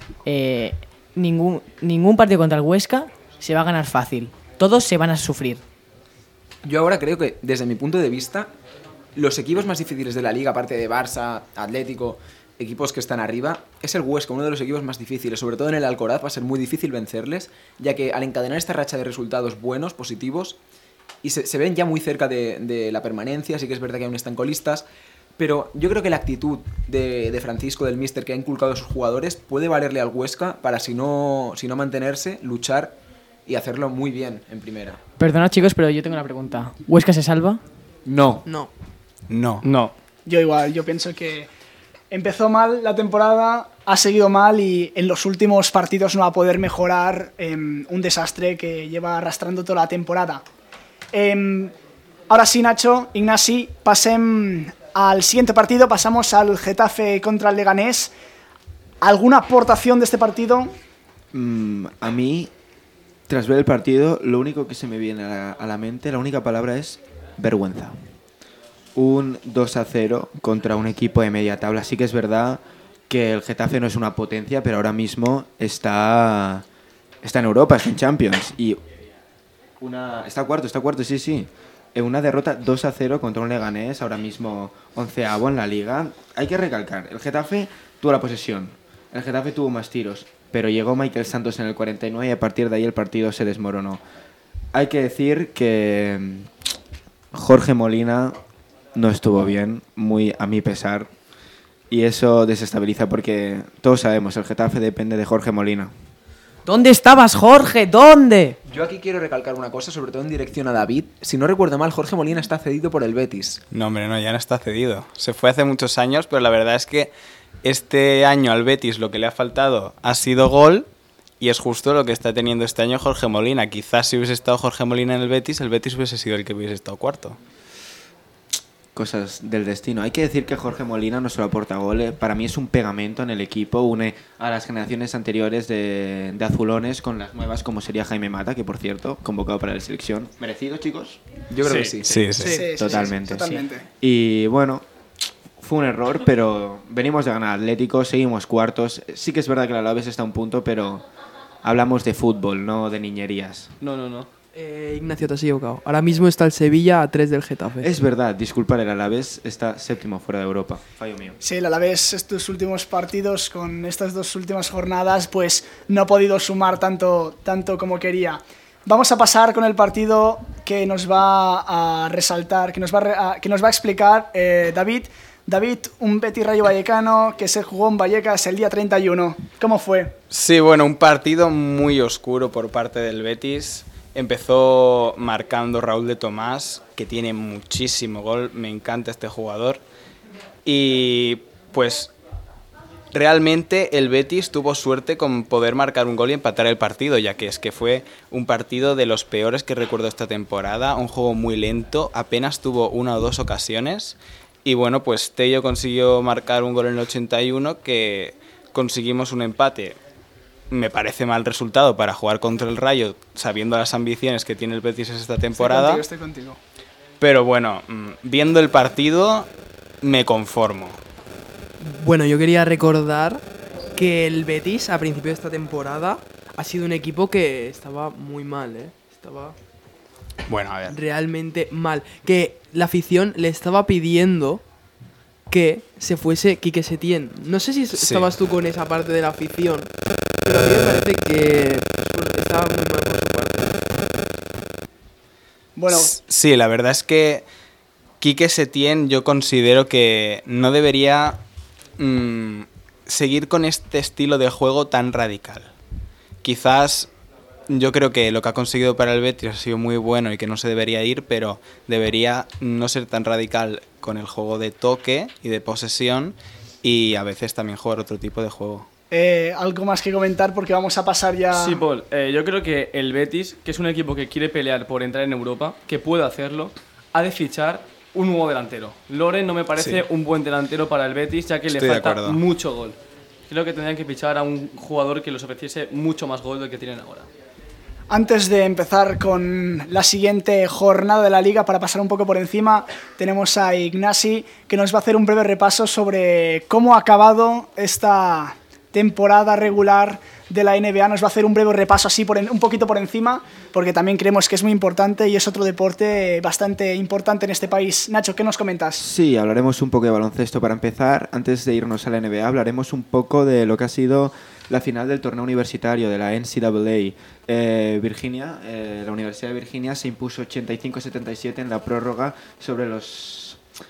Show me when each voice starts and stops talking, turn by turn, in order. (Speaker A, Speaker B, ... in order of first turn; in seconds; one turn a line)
Speaker A: 0.2-5.6
Speaker B: 6.6-8.5
Speaker B: 9.1-20.6
Speaker B: 21.2-24.9
Speaker B: 25.4-35.0
Speaker A: 35.2-37.6
Speaker C: 38.0-38.4
Speaker D: 38.4-38.7
Speaker E: 39.3-39.6
Speaker F: 39.6-39.9
Speaker G: 40.2-41.5
Speaker G: 42.1-50.4
Speaker G: 51.1-51.7
Speaker G: 52.3-58.1
Speaker G: 59.0-60.7
Speaker C: 61.3-62.5
Speaker C: 63.3-68.0
Speaker C: 68.9-76.6
Speaker C: 77.2-78.8
Speaker C: 79.8-94.0
Speaker C: 94.7-96.5
Speaker C: 97.3-98.4
Speaker C: 98.9-101.1
Speaker C: 101.9-105.9
Speaker A: 106.7-108.6
Speaker B: 108.7-113.6
Speaker E: 113.7-117.1
Speaker E: 117.6-120.9
Speaker E: 121.4-127.4
Speaker C: 128.9-141.2
Speaker B: 141.5-142.3
Speaker F: 141.6-142.0
Speaker E: 142.1-142.6
Speaker G: 142.4-143.9
Speaker D: 142.5-143.0
Speaker C: 142.7-144.8
Speaker C: 145.6-151.1
Speaker C: 151.6-153.7
Speaker F: 153.8-154.3
Speaker D: 154.5-157.9
Speaker C: 157.8-161.4
Speaker G: 161.4-180.1
Speaker E: 180.3-189.8
Speaker E: 190.6-192.1
Speaker E: 193.1-210.0
Speaker E: 210.7-216.0
Speaker G: 215.6-216.6
Speaker E: 217.2-219.5
Speaker E: 220.0-221.0
Speaker D: 221.8-229.6
Speaker E: 230.5-231.0
Speaker D: 230.9-234.7
Speaker D: 235.5-243.8
Speaker E: 237.9-238.3
Speaker G: 245.8-246.1
Speaker E: 245.9-247.4
Speaker E: 248.2-251.4
Speaker E: 252.0-255.7
Speaker E: 256.4-257.1
Speaker E: 257.7-268.9
Speaker G: 269.1-271.8
Speaker F: 271.5-283.0
Speaker E: 279.8-280.0
Speaker E: 281.7-282.4
Speaker F: 283.5-287.3
Speaker G: 288.1-309.1
Speaker C: 309.0-323.6